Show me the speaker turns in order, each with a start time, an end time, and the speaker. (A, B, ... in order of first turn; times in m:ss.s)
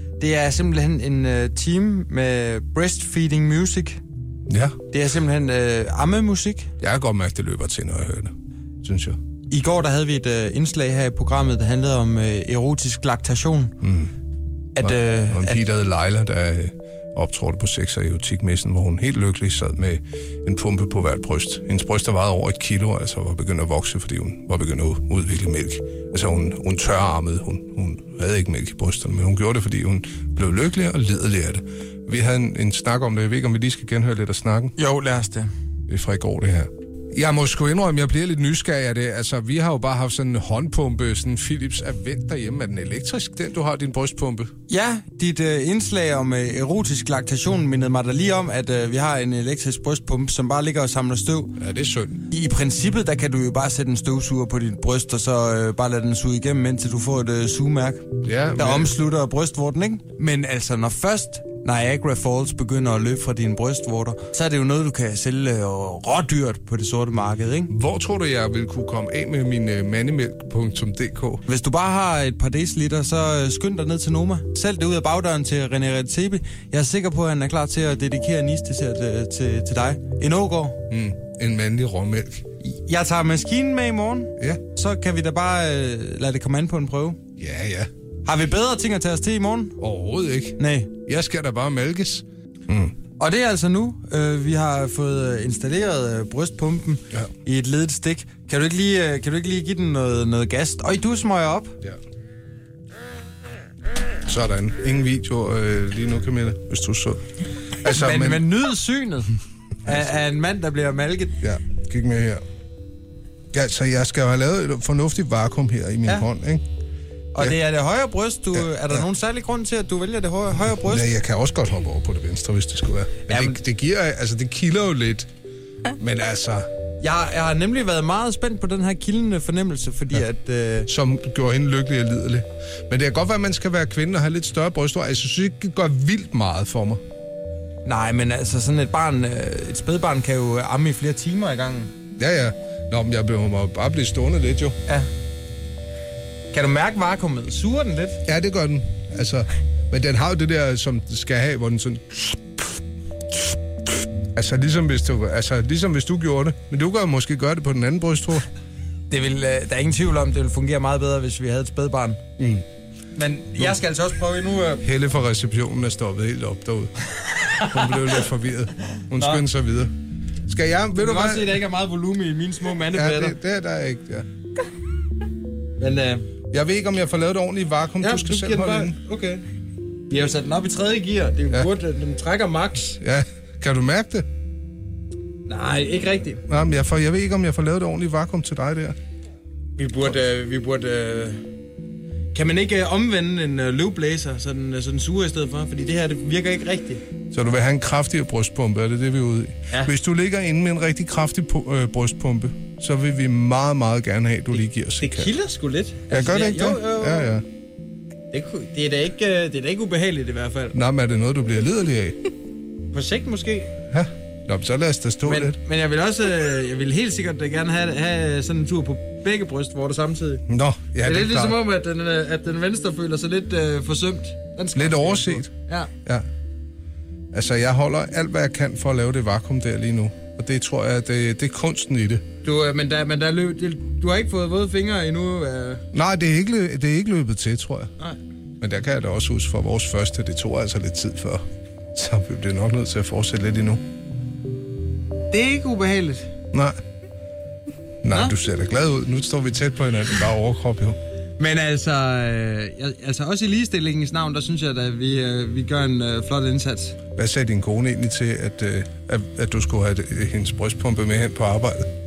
0:00.2-0:04.0 A
0:04.5-0:04.8 B
0:04.9-0:06.7 A
0:06.8-0:08.3 B
0:08.8-0:09.2 B
0:09.5-0:13.7 A
0:13.8-0:14.1 B
0:14.8-0:15.6 A
0:14.8-0:34.7 B
0:34.8-0:35.5 A
0:35.9-0:44.5 B
0:44.7-0:51.6 A
0:51.6-0:52.2 B
0:52.3-1:07.7 A
0:58.2-0:58.9 B
1:07.7-1:11.4 B
1:11.4-1:20.8 A
1:20.9-1:22.4 B
1:22.6-1:27.2 A
1:27.4-1:27.9 B
1:28.2-1:29.7 A
1:29.8-1:32.9 B
1:30.6-1:30.9 A
1:33.2-1:41.7 A
1:44.2-1:47.2 B
1:47.8-1:48.4 B
1:47.8-1:51.4 A
1:51.4-1:52.4 B
1:53.5-1:56.6 B
1:57.3-2:01.1 A
2:00.8-2:05.3 B
2:03.3-2:03.6 A
2:06.0-2:06.6 B
2:07.0-2:10.9 A
2:10.9-2:17.0 B
2:17.8-2:21.9 A
2:22.2-2:24.8 B
2:26.5-2:28.2 A
2:28.2-2:32.4 B
2:34.3-2:38.4 B
2:39.1-2:42.2 A
2:42.4-2:42.6 B
2:43.2-2:44.8 A
2:44.8-2:46.9 B
2:47.3-2:48.1 A
2:47.6-2:49.9 B
2:49.2-2:49.4 A
2:50.5-2:51.6 B
2:51.0-2:53.4 A
2:52.9-2:54.2 B
2:55.8-2:56.2 A
2:56.5-2:59.0 B
2:58.0-2:59.4 A
3:00.1-3:03.0 A
3:03.0-3:04.2 B
3:05.5-3:06.4 A
3:06.5-3:08.9 B
3:09.8-3:11.4 A
3:12.3-3:17.0 A
3:17.3-3:25.3 B
3:25.0-3:27.3 A
3:26.1-3:27.4 B
3:28.3-3:30.8 A
3:30.7-3:32.3 B
3:32.9-3:33.7 A
3:33.9-3:35.6 B
3:35.2-3:40.4 A
3:40.5-3:41.6 B
3:41.0-3:45.9 A
3:44.7-3:45.5 B
3:47.3-3:52.2 B
3:52.4-3:55.8 A
3:55.9-3:57.9 B
3:58.6-4:01.4 B
4:01.9-4:03.8 B
4:05.3-4:06.3 A
4:08.0-4:11.0 B
4:11.4-4:17.0 A
4:17.2-4:21.8 B